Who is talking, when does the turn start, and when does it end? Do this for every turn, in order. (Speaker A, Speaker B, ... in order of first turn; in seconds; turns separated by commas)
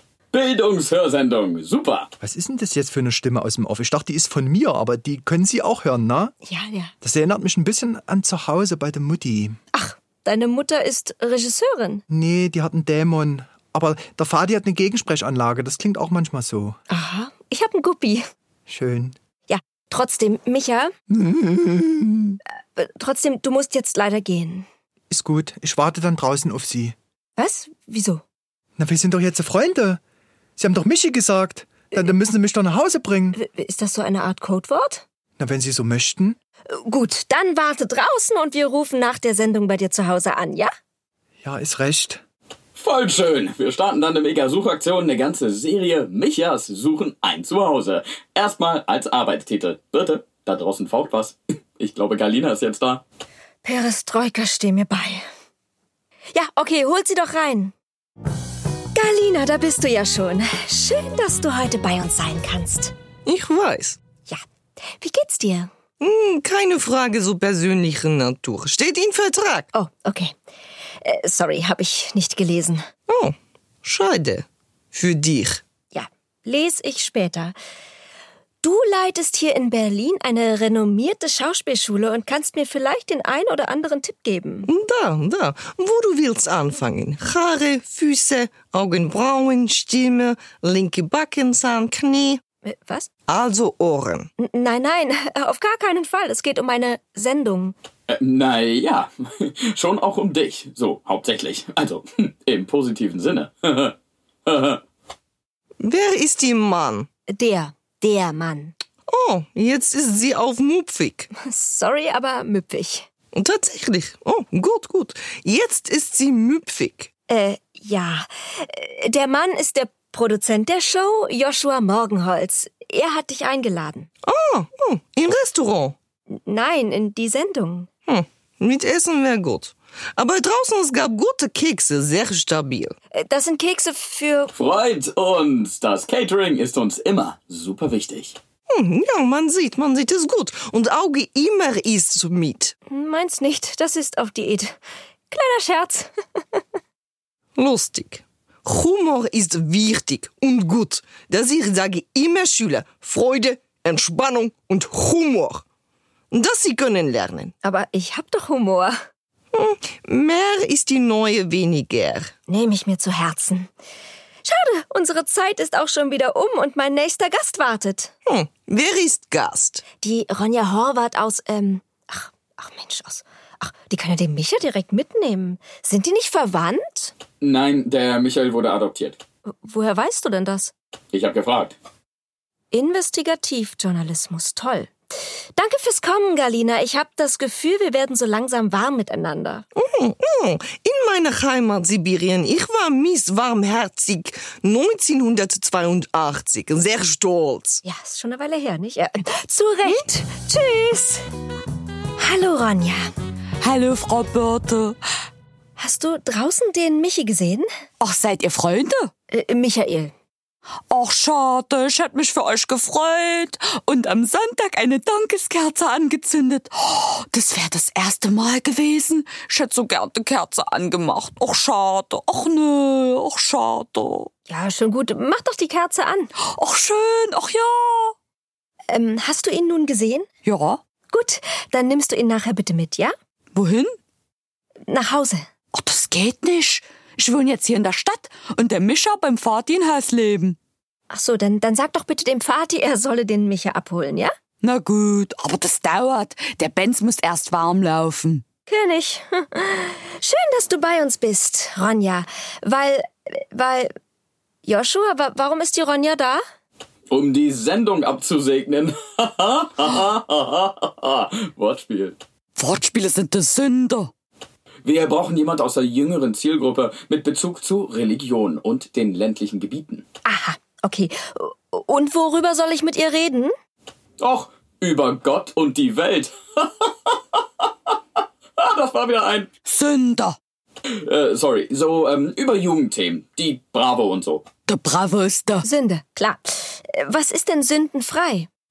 Speaker A: 0.3-2.1, Speaker B: 2.2-6.3, Speaker C: 6.4-6.9, Speaker B: 7.0-9.6, Speaker C: 9.7-12.0, Speaker B: 12.1-16.8, Speaker C: 16.9-18.2, Speaker B: 18.7-19.1, Speaker C: 19.5-20.9, Speaker B: 21.1-22.4, Speaker C: 22.7-24.7, Speaker B: 25.1-26.9, Speaker C: 27.4-28.2, Speaker B: 28.8-30.0, Speaker B: 30.6-33.4, Speaker C: 33.3-35.0, Speaker B: 35.4-36.4, Speaker C: 36.7-40.7, Speaker B: 41.4-42.2, Speaker A: 42.8-53.0, Speaker C: 53.6-55.2, Speaker C: 56.3-57.7, Speaker C: 58.9-62.9, Speaker D: 63.2-64.0, Speaker C: 65.0-65.7, Speaker D: 66.0-69.7, Speaker C: 69.7-70.3, Speaker C: 71.0-72.8, Speaker D: 73.1-75.6, Speaker C: 75.9-77.5, Speaker C: 78.6-84.7, Speaker D: 84.7-92.4, Speaker C: 92.6-93.1, Speaker D: 93.3-94.3, Speaker C: 94.4-97.7, Speaker A: 98.1-103.9, Speaker A: 104.5-104.8, Speaker D: 105.8-107.1, Speaker C: 107.3-108.7, Speaker D: 109.1-111.3, Speaker C: 111.4-113.1, Speaker D: 113.3-117.1, Speaker C: 117.3-124.1, Speaker D: 124.2-125.9, Speaker C: 126.3-127.9, Speaker D: 128.1-132.9, Speaker C: 133.2-134.5, Speaker A: 134.5-138.4, Speaker D: 138.7-142.7, Speaker C: 142.9-144.8, Speaker C: 145.3-146.6, Speaker D: 147.6-155.6, Speaker D: 156.3-157.5, Speaker C: 157.6-158.9, Speaker D: 159.5-162.3, Speaker C: 162.5-163.7, Speaker C: 164.4-168.1, Speaker D: 168.3-169.8, Speaker C: 170.0-177.1, Speaker A: 177.4-179.2, Speaker C: 179.5-180.7, Speaker A: 181.1-181.7, Speaker C: 182.7-184.9, Speaker C: 185.5-189.7, Speaker D: 189.8-197.8, Speaker C: 197.8-201.2, Speaker C: 202.2-203.0, Speaker E: 203.6-205.0, Speaker C: 205.8-207.7, Speaker E: 208.0-209.1, Speaker C: 209.3-210.1, Speaker E: 210.9-224.3, Speaker C: 224.5-226.3, Speaker E: 226.4-228.1, Speaker C: 228.9-230.3, Speaker E: 230.4-230.8, Speaker C: 231.1-233.1, Speaker E: 233.5-233.9, Speaker C: 234.9-235.4, Speaker E: 235.7-240.6, Speaker C: 241.1-244.3, Speaker E: 244.6-248.4, Speaker C: 248.7-253.9, Speaker C: 254.6-256.4, Speaker A: 257.1-262.2, Speaker E: 262.6-264.1, Speaker A: 264.8-270.0, Speaker C: 270.2-273.5, Speaker A: 274.2-277.9, Speaker A: 278.6-279.5, Speaker E: 279.6-280.4, Speaker A: 281.0-284.4, Speaker E: 284.7-285.6, Speaker C: 285.6-288.5